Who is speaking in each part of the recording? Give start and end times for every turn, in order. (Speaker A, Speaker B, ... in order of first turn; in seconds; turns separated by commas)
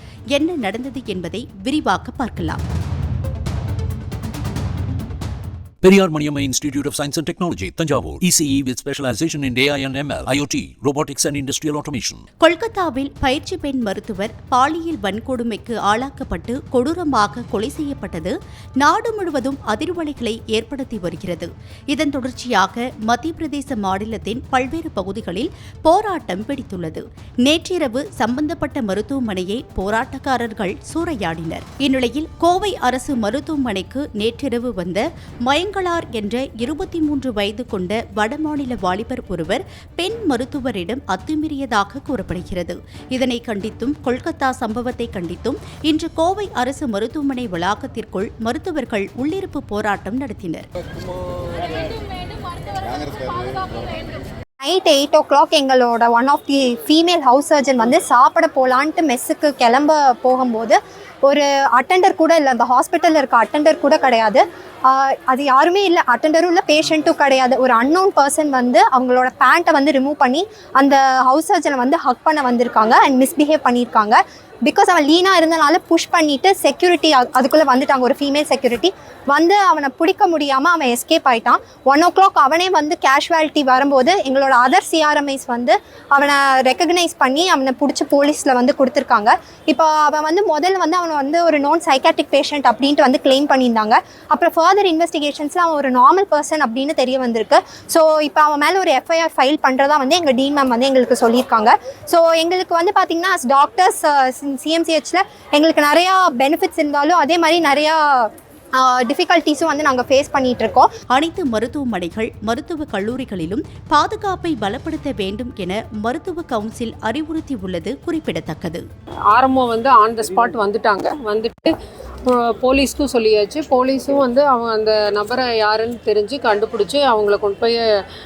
Speaker A: 0.3-2.6, Speaker B: 5.8-12.2, Speaker A: 12.4-50.6, Speaker C: 54.6-110.9, Speaker A: 111.1-118.8, Speaker D: 119.3-121.7, Speaker D: 122.2-127.8